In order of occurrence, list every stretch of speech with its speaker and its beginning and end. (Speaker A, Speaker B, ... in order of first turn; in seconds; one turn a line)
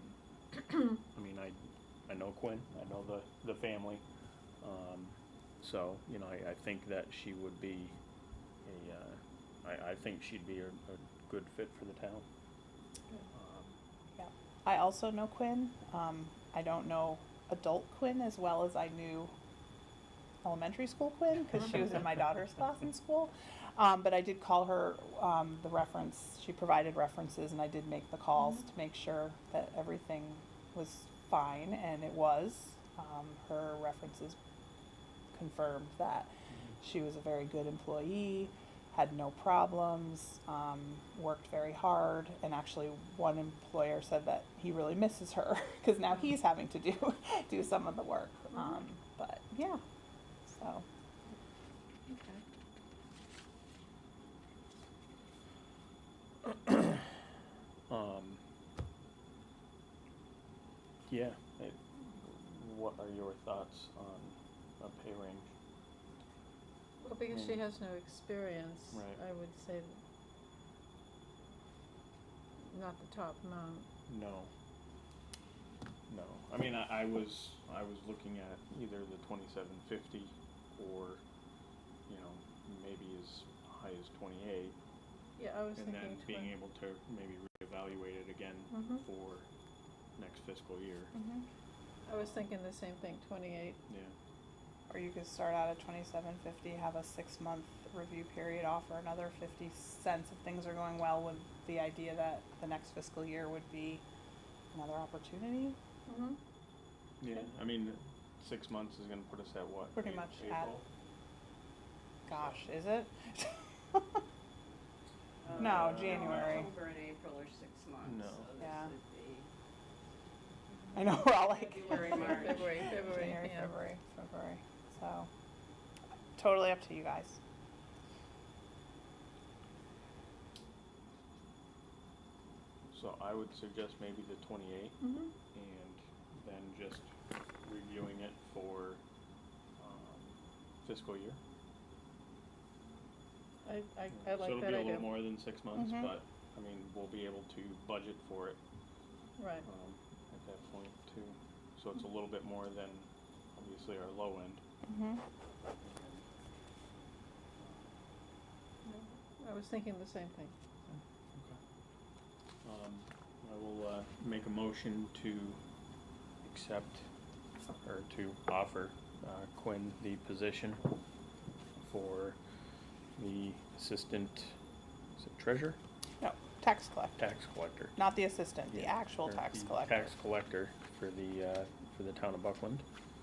Speaker A: 0.8-4.0
Speaker A: 4.6-8.0
Speaker A: 8.7-12.2
Speaker A: 13.3-13.8
Speaker B: 14.2-19.3
Speaker B: 20.4-34.4
Speaker B: 35.3-36.3
Speaker B: 36.8-49.8
Speaker C: 48.5-48.8
Speaker B: 50.5-50.9
Speaker C: 52.1-52.4
Speaker A: 56.5-57.1
Speaker A: 57.9-58.4
Speaker A: 61.1-65.5
Speaker C: 67.0-70.0
Speaker A: 67.3-67.7
Speaker A: 68.9-69.2
Speaker C: 72.7-73.9
Speaker A: 74.1-74.5
Speaker A: 76.1-81.2
Speaker A: 82.1-84.8
Speaker C: 85.4-86.5
Speaker A: 85.8-89.5
Speaker C: 88.7-89.0
Speaker A: 90.2-91.1
Speaker B: 91.1-91.5
Speaker C: 92.1-93.8
Speaker A: 93.9-94.2
Speaker B: 94.9-104.0
Speaker B: 104.7-105.8
Speaker C: 106.1-106.4
Speaker A: 107.2-110.8
Speaker B: 110.0-110.7
Speaker B: 112.3-114.2
Speaker A: 112.3-112.6
Speaker D: 115.4-119.5
Speaker A: 115.5-116.7
Speaker B: 115.5-116.7
Speaker A: 118.0-118.5
Speaker B: 118.6-118.9
Speaker B: 120.9-125.3
Speaker D: 121.1-123.0
Speaker C: 122.0-123.7
Speaker B: 126.4-127.4
Speaker A: 132.9-135.0
Speaker C: 135.0-135.3
Speaker A: 135.5-137.1
Speaker A: 137.6-139.0
Speaker A: 139.8-141.4
Speaker C: 143.6-145.2
Speaker A: 144.1-148.6
Speaker B: 145.8-146.1
Speaker C: 149.4-149.7
Speaker A: 149.6-154.6
Speaker B: 154.9-155.2
Speaker A: 155.8-156.2
Speaker A: 157.6-157.9
Speaker C: 158.8-160.5
Speaker A: 160.9-161.6
Speaker A: 162.6-165.6
Speaker A: 166.4-167.1
Speaker A: 167.8-170.8
Speaker A: 171.8-172.4
Speaker A: 173.2-174.6
Speaker A: 175.2-175.8
Speaker B: 176.2-177.2
Speaker A: 177.2-178.0
Speaker B: 178.0-180.1
Speaker A: 178.7-182.9